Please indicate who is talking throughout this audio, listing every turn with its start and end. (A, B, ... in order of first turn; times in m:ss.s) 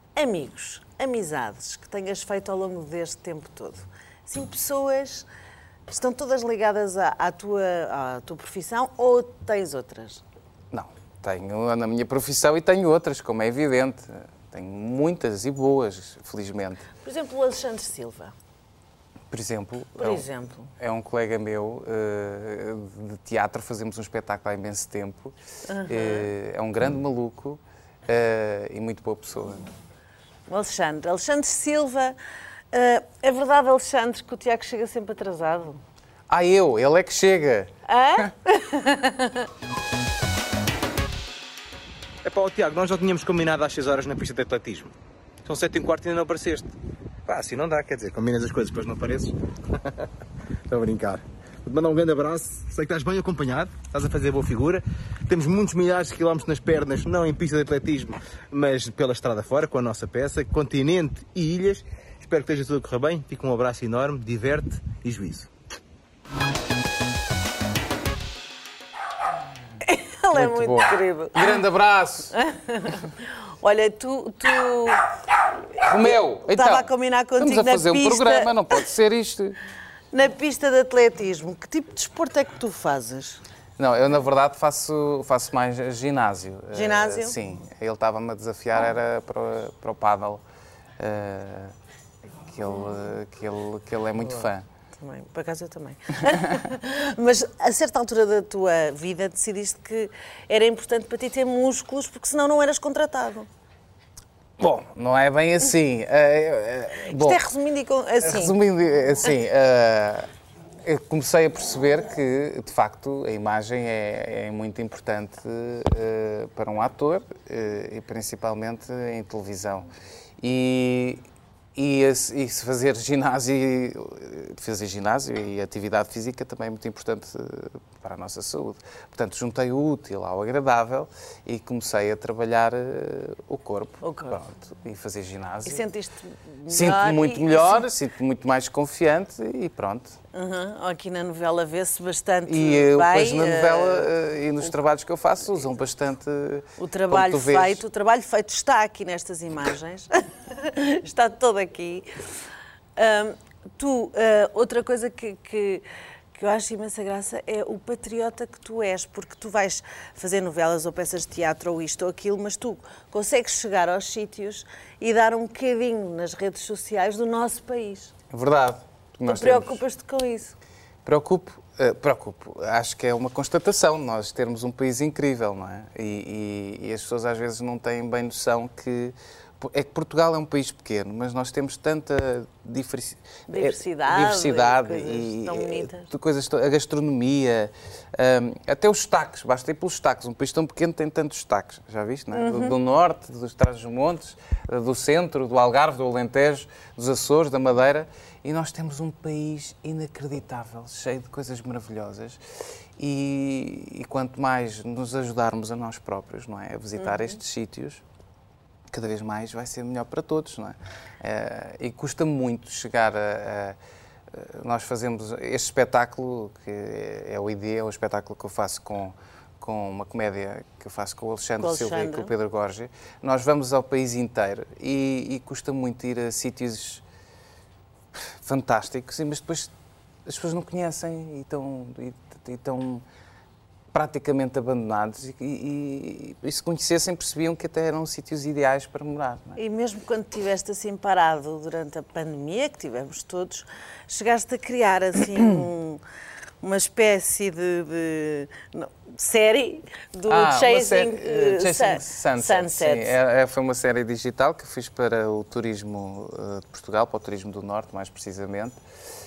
0:00.2-0:05.3 A
0:05.9-0:10.2 A
0:10.7-0:16.9 B
0:17.0-0:18.3 A
0:19.3-0:25.3 B
0:20.0-0:20.7 A
0:25.7-0:26.3 A
0:25.9-0:29.6 B
0:30.5-0:32.2 A
0:32.7-0:35.8 A
0:36.3-0:38.3 B
0:37.9-0:39.5 A
0:42.2-0:44.9 C
0:45.4-0:46.7 C
0:47.2-0:50.0 C
0:50.7-1:05.5 C
1:09.8-1:11.6 A
1:10.3-1:12.3 B
1:12.3-1:15.0 A
1:15.8-1:19.6 B
1:16.0-1:18.5 A
1:20.1-1:23.4 A
1:23.8-1:30.4 B
1:26.7-1:27.4 A
1:31.0-1:31.7 B
1:32.4-1:34.6 B
1:35.0-1:43.5 A
1:44.6-1:47.4 B
1:47.1-1:48.6 A
1:48.2-1:50.3 B
1:50.8-1:59.9 B
2:00.4-2:01.2 B
2:01.8-2:15.8 B
2:14.0-2:14.4 A
2:15.6-2:17.9 A
2:16.7-2:20.2 B
2:20.3-2:24.1 A
2:22.5-2:27.8 B
2:26.8-2:32.1 A
2:33.0-2:48.1 A
2:48.3-2:49.8 B
2:49.2-2:50.6 A
2:51.0-3:22.4 B
3:03.5-3:06.1 A
3:12.3-3:12.8 A
3:23.0-3:28.0 B
3:27.0-3:27.3 A
3:28.9-3:33.8 B
3:34.3-3:47.0 B
3:41.6-3:42.3 A
3:48.1-3:49.7 B
3:50.2-3:53.0 B
3:53.9-3:59.6 B
3:59.6-4:06.0 A
4:06.6-4:13.2 A
4:10.3-4:18.8 B